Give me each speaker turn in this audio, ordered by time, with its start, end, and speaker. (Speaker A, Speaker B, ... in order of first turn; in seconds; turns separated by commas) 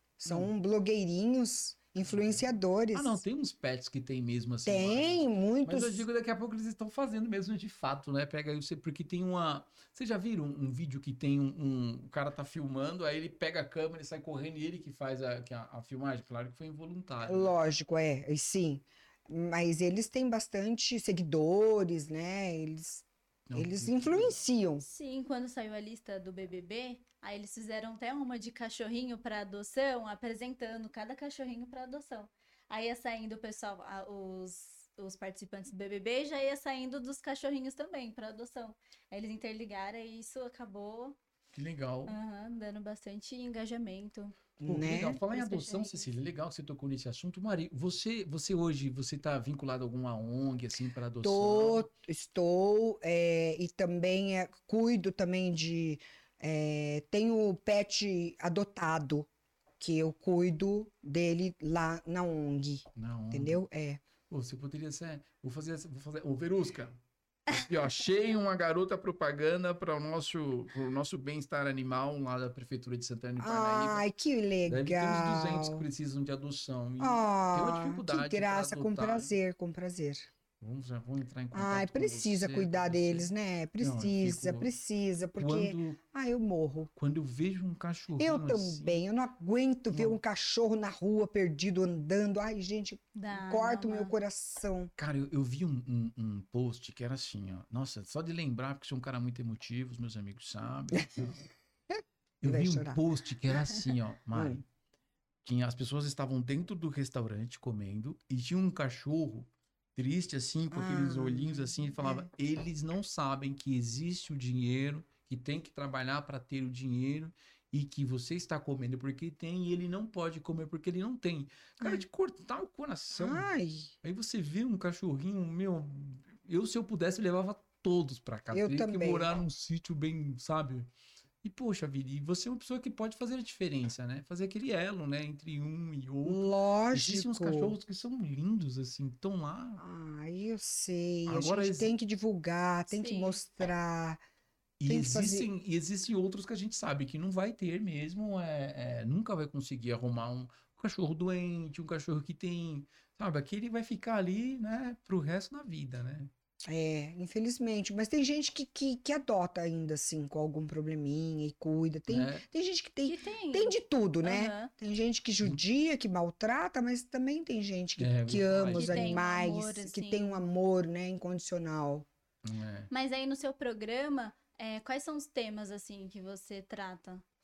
Speaker A: 0.2-3.2, Speaker B: 2.0-17.5, Speaker A: 4.7-6.0, Speaker A: 17.2-24.8, Speaker B: 23.5-24.4, Speaker C: 24.8-41.2, Speaker B: 41.5-42.1, Speaker C: 42.0-44.4, Speaker A: 44.6-45.2, Speaker B: 44.6-51.9, Speaker C: 45.3-46.1, Speaker A: 51.2-59.3, Speaker A: 59.8-64.0, Speaker B: 63.0-63.6, Speaker B: 64.3-74.0, Speaker A: 73.4-75.8, Speaker B: 74.7-79.3, Speaker A: 77.0-80.3, Speaker B: 80.6-84.7, Speaker A: 81.5-86.9, Speaker B: 85.3-86.0, Speaker B: 87.0-89.0, Speaker A: 88.2-94.9, Speaker B: 89.9-90.2, Speaker C: 93.1-94.1, Speaker B: 95.0-101.4, Speaker B: 102.4-104.6, Speaker A: 102.4-103.0, Speaker A: 104.3-104.6, Speaker B: 105.4-123.5, Speaker A: 110.7-112.3, Speaker A: 123.1-123.9, Speaker B: 124.0-130.9, Speaker A: 128.5-129.3, Speaker B: 131.4-139.8, Speaker A: 136.2-137.8, Speaker A: 139.8-144.2, Speaker B: 141.3-141.9, Speaker C: 142.9-143.4, Speaker B: 144.8-156.3, Speaker A: 144.9-145.5, Speaker A: 156.7-172.1, Speaker B: 162.1-162.4, Speaker C: 163.0-164.7, Speaker B: 168.0-169.2, Speaker C: 168.7-170.4, Speaker B: 172.4-172.9, Speaker C: 172.9-177.2